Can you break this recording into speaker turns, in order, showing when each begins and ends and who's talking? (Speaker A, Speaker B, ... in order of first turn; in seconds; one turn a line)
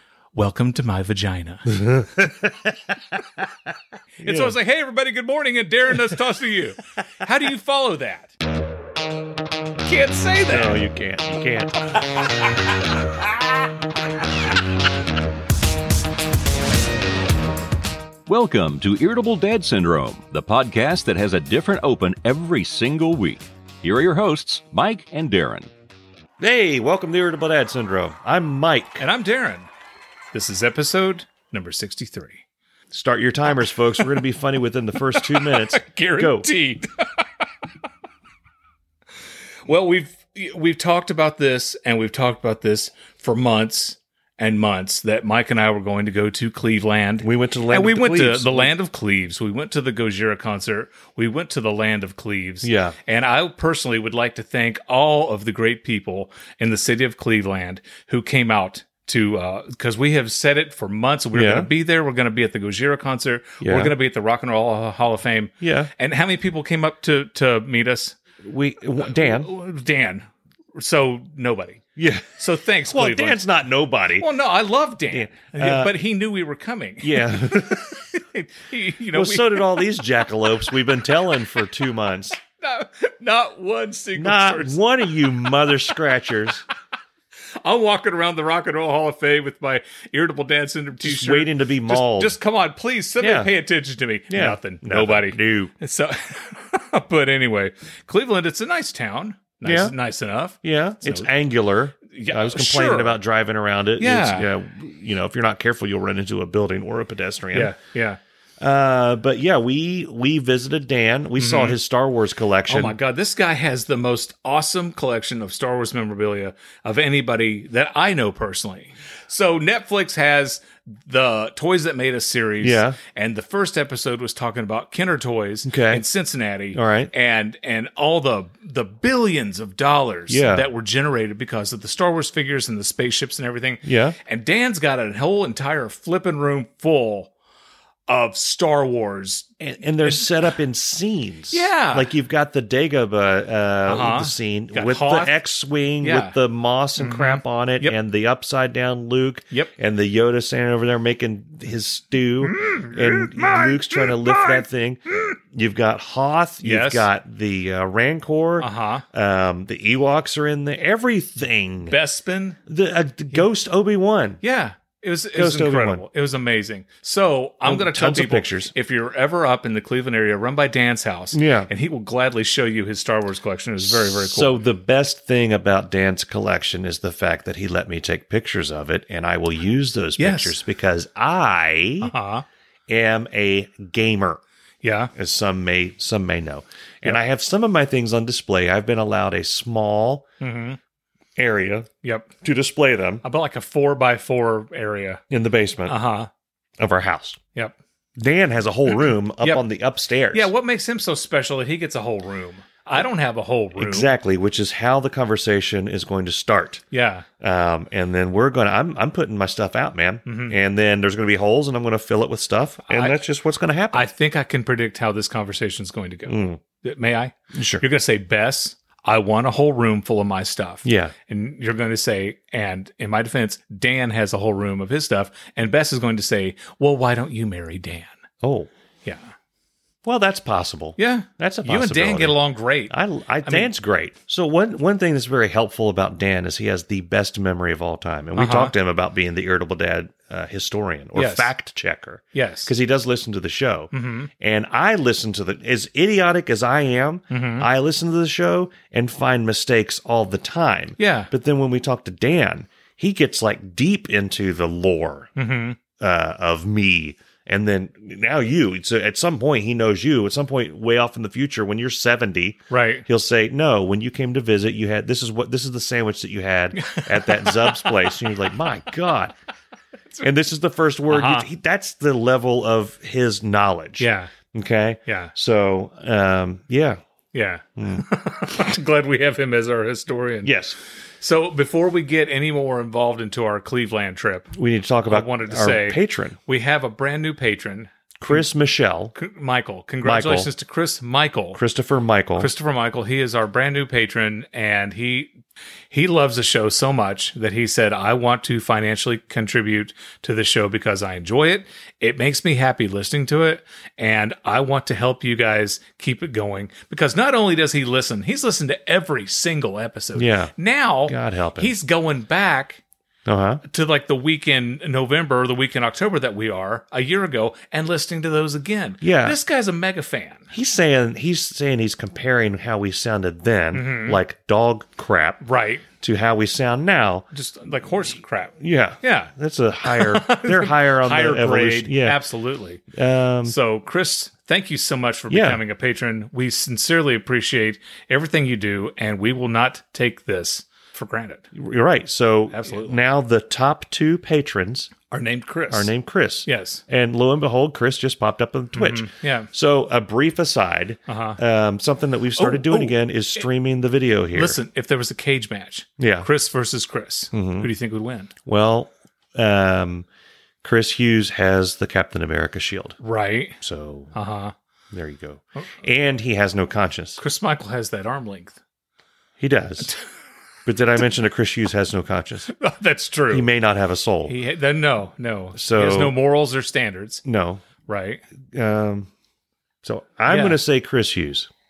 Speaker A: 0.3-1.8
Speaker B: 1.7-2.7
Speaker A: 4.2-8.3
Speaker B: 4.2-4.5
Speaker A: 9.8-10.8
Speaker B: 10.5-11.9
Speaker C: 18.3-25.7
Speaker B: 26.4-29.0
Speaker A: 29.0-29.7
Speaker A: 30.3-32.4
Speaker B: 32.9-36.5
Speaker A: 35.1-37.2
Speaker A: 39.6-68.2
Speaker B: 47.2-48.7
Speaker B: 52.6-53.0
Speaker B: 61.3-61.7
Speaker B: 63.6-63.9
Speaker B: 65.6-65.9
Speaker B: 68.4-69.5
Speaker A: 69.0-71.8
Speaker B: 72.0-74.3
Speaker A: 72.3-73.4
Speaker A: 74.2-79.8
Speaker B: 75.1-76.0
Speaker B: 77.0-77.9
Speaker B: 79.1-82.4
Speaker A: 82.6-84.9
Speaker B: 84.1-86.6
Speaker A: 87.6-101.3
Speaker B: 91.0-92.4
Speaker B: 93.2-93.5
Speaker B: 94.3-95.7
Speaker B: 99.6-99.9
Speaker B: 100.6-107.7
Speaker A: 102.1-103.2
Speaker A: 104.0-104.5
Speaker A: 107.5-108.2
Speaker B: 108.6-113.0
Speaker A: 111.4-111.8
Speaker A: 112.7-137.3
Speaker B: 122.6-123.0
Speaker B: 125.6-126.0
Speaker B: 126.7-127.1
Speaker B: 130.3-130.7
Speaker B: 133.8-134.2
Speaker A: 138.1-139.5
Speaker B: 139.6-162.0
Speaker A: 141.5-142.1
Speaker A: 143.9-145.4
Speaker A: 146.0-146.4
Speaker A: 147.0-148.0
Speaker A: 152.4-154.6
Speaker A: 156.6-157.1
Speaker A: 158.6-159.0
Speaker A: 161.9-162.6
Speaker B: 162.7-164.4
Speaker A: 164.4-174.6
Speaker B: 165.3-166.1
Speaker B: 167.6-168.7
Speaker B: 171.3-171.7
Speaker B: 173.8-182.1
Speaker A: 180.2-180.6
Speaker A: 182.0-182.4
Speaker B: 182.9-184.4
Speaker A: 184.8-185.1
Speaker B: 185.1-190.2
Speaker A: 190.4-190.8
Speaker B: 191.3-191.9
Speaker A: 192.0-192.3
Speaker B: 192.4-193.2
Speaker A: 193.2-195.2
Speaker B: 195.3-196.0
Speaker A: 195.8-196.3
Speaker B: 196.8-197.4
Speaker B: 198.2-200.5
Speaker A: 199.4-199.7
Speaker A: 200.3-204.1
Speaker B: 203.8-206.8
Speaker A: 206.9-207.2
Speaker B: 207.4-214.1
Speaker A: 210.2-210.6
Speaker A: 212.9-213.2
Speaker A: 213.9-228.2
Speaker B: 216.3-216.6
Speaker B: 217.5-217.8
Speaker B: 220.8-221.1
Speaker B: 228.4-228.7
Speaker A: 229.0-229.3
Speaker B: 230.0-255.3
Speaker A: 231.0-233.7
Speaker A: 238.3-238.7
Speaker A: 241.1-241.5
Speaker A: 242.3-242.7
Speaker A: 243.9-244.3
Speaker A: 247.3-247.7
Speaker A: 251.0-251.3
Speaker A: 255.3-255.8
Speaker B: 256.0-269.3
Speaker A: 262.7-263.1
Speaker A: 266.8-268.1
Speaker B: 270.2-277.0
Speaker A: 271.1-271.5
Speaker A: 274.0-274.3
Speaker A: 275.1-275.3
Speaker A: 277.3-280.5
Speaker B: 277.8-278.0
Speaker B: 280.4-280.7
Speaker A: 281.2-284.5
Speaker B: 284.5-286.4
Speaker A: 285.1-288.5
Speaker B: 288.2-289.1
Speaker A: 289.1-291.6
Speaker B: 290.0-290.5
Speaker B: 291.5-292.5
Speaker A: 292.4-295.3
Speaker A: 295.9-312.8
Speaker B: 310.1-310.5
Speaker B: 311.1-311.7
Speaker B: 313.2-313.6
Speaker A: 313.6-320.5
Speaker B: 319.0-319.4
Speaker B: 320.5-325.4
Speaker A: 323.7-324.2
Speaker A: 325.4-325.9
Speaker B: 326.0-327.3
Speaker A: 327.3-329.3
Speaker B: 328.6-332.2
Speaker A: 329.8-332.8
Speaker B: 332.9-333.5
Speaker A: 333.4-341.5
Speaker B: 335.3-335.6
Speaker B: 341.5-344.9
Speaker A: 342.5-343.0
Speaker A: 345.1-345.9
Speaker B: 345.7-354.6
Speaker A: 346.4-346.8
Speaker A: 348.8-349.5
Speaker A: 351.1-351.4
Speaker A: 352.3-353.4
Speaker A: 354.3-358.3
Speaker B: 356.0-356.3
Speaker B: 357.3-357.7
Speaker B: 358.4-360.1
Speaker B: 360.6-363.0
Speaker A: 363.0-363.6
Speaker B: 363.6-364.1
Speaker A: 364.1-364.5
Speaker B: 364.9-367.2
Speaker A: 367.2-368.6
Speaker B: 369.4-369.9
Speaker B: 370.6-372.5
Speaker A: 372.5-373.5
Speaker B: 373.3-374.3
Speaker A: 374.3-377.2
Speaker B: 375.5-376.1
Speaker B: 377.2-377.6
Speaker A: 377.9-378.2
Speaker B: 378.5-379.1
Speaker B: 379.8-381.5
Speaker A: 380.3-380.6